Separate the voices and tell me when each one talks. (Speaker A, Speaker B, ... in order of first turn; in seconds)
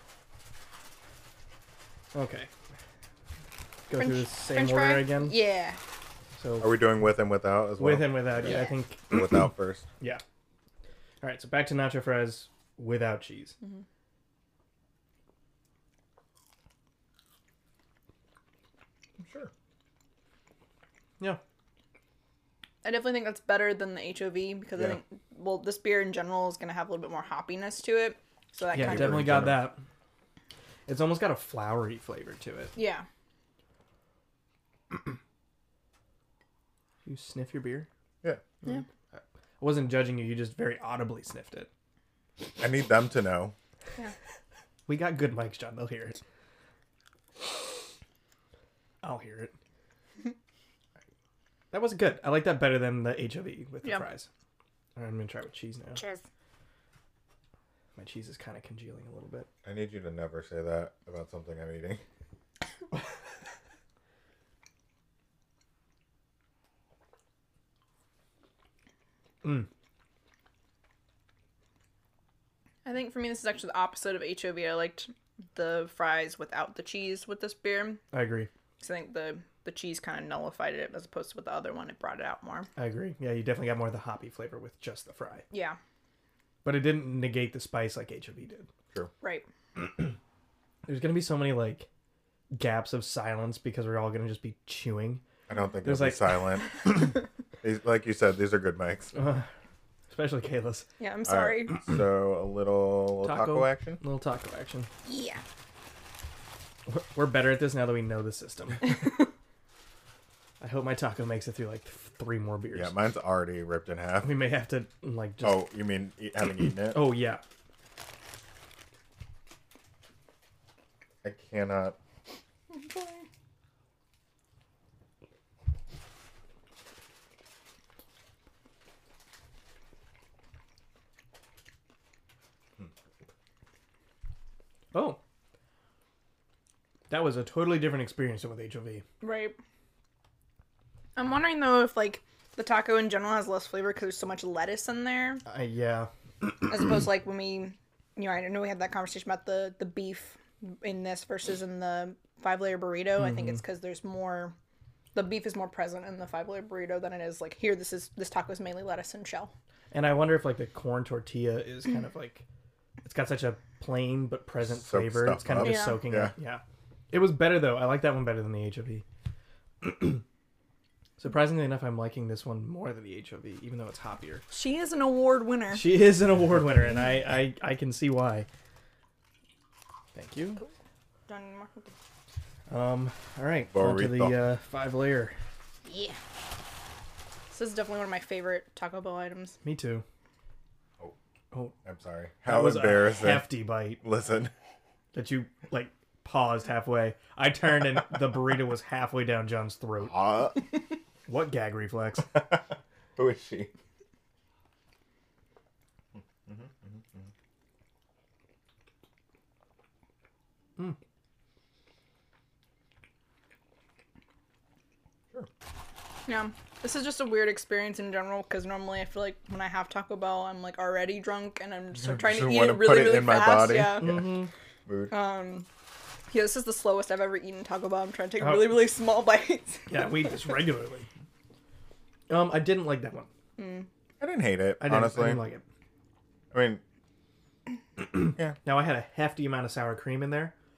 Speaker A: 2.1-2.5, 3.9-5.4, 6.4-6.8, 7.8-9.5, 11.2-13.6, 28.7-29.8, 30.9-32.8, 37.0-37.9, 38.6-41.7, 44.9-46.2, 49.0-49.5, 51.7-54.3, 55.0-56.0, 58.0-59.5, 69.4-69.7, 78.1-78.5, 82.8-85.5, 86.6-88.7, 89.8-90.1, 90.8-91.9, 92.5-95.2, 95.8-96.3, 99.1-99.5, 100.1-100.8, 103.2-104.9, 106.9-109.1, 110.6-112.9, 114.2-115.7, 116.8-117.4, 134.9-135.2, 137.1-139.0, 145.4-146.1, 153.2-153.6, 159.9-162.4, 163.0-169.0, 169.8-170.2, 171.2-174.4, 175.7-178.5, 180.1-180.6, 182.7-185.3, 189.6-190.0, 192.4-194.0, 195.1-200.2, 201.3-202.4, 224.0-224.5, 228.4-228.9, 229.9-231.1, 232.3-233.3, 234.8-235.6, 238.1-240.5
Speaker B: 3.9-5.8, 8.4-8.7, 22.8-29.3, 32.8-33.0, 56.0-56.2, 72.8-78.0, 78.8-82.7, 85.5-85.8, 101.0-101.8, 105.0-105.4, 122.7-123.2, 139.2-139.6, 141.2-145.4, 146.7-154.5, 155.1-159.5, 165.6-166.1, 174.5-175.9, 181.3-181.9, 185.8-186.2, 187.5-189.6, 216.3-224.2, 225.1-225.7, 226.3-230.3, 233.6-233.9
Speaker C: 6.6-9.9, 19.2-19.5, 28.7-29.7, 42.6-43.5, 59.6-62.0, 95.5-99.1, 101.2-104.0, 112.7-114.4, 115.4-117.1, 121.2-122.0, 164.6-166.3, 183.7-184.4, 191.8-194.5, 200.0-200.7, 202.3-203.7, 206.2-207.3, 222.0-224.3, 224.9-225.1, 234.2-235.4, 236.5-236.8